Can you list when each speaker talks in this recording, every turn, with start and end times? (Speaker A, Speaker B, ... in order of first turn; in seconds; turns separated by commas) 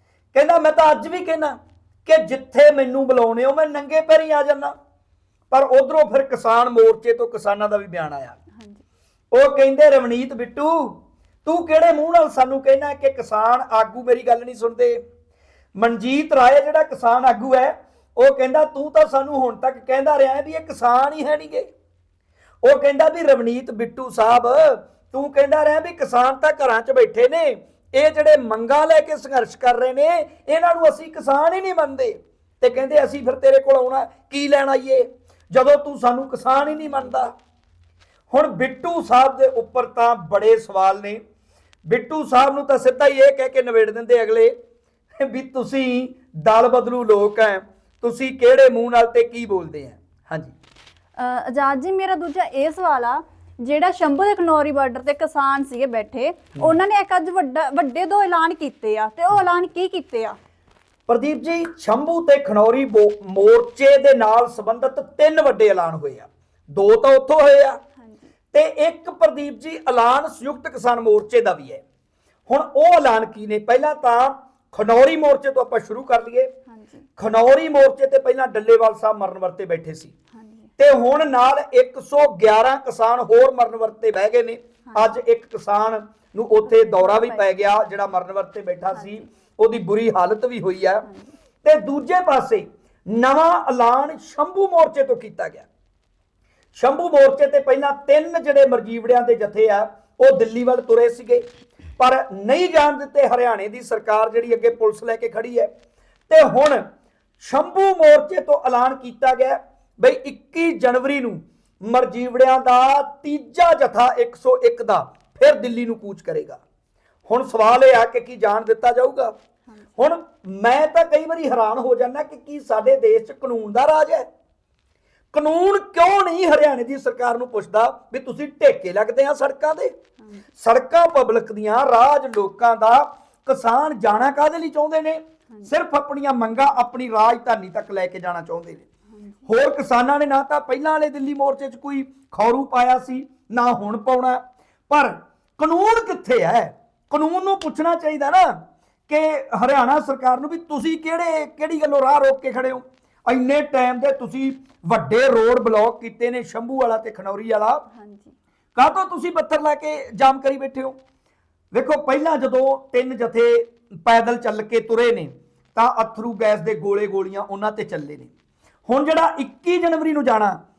Speaker A: 0.3-4.7, Speaker A: 5.5-8.4, Speaker B: 8.5-8.8, Speaker A: 9.3-15.0, Speaker A: 15.8-21.7, Speaker A: 22.6-37.3, Speaker A: 38.3-41.2, Speaker A: 41.9-44.5, Speaker A: 45.2-50.5, Speaker B: 51.2-60.4, Speaker A: 61.1-67.8, Speaker B: 68.0-68.3, Speaker A: 68.5-71.8, Speaker A: 72.5-76.5, Speaker B: 76.7-77.0, Speaker A: 77.2-80.1, Speaker B: 80.3-80.7, Speaker A: 80.8-91.1, Speaker B: 86.7-87.4, Speaker B: 89.0-89.2, Speaker B: 91.0-91.3, Speaker A: 91.6-95.7, Speaker A: 96.8-101.5, Speaker A: 102.0-105.7, Speaker A: 106.3-106.8, Speaker A: 107.4-116.6, Speaker A: 117.3-119.3, Speaker A: 120.0-124.3, Speaker A: 125.3-129.9, Speaker A: 130.6-138.9, Speaker B: 139.1-139.5, Speaker A: 139.5-157.8, Speaker B: 157.9-158.3, Speaker A: 158.8-160.9, Speaker A: 161.7-168.3, Speaker A: 168.9-170.6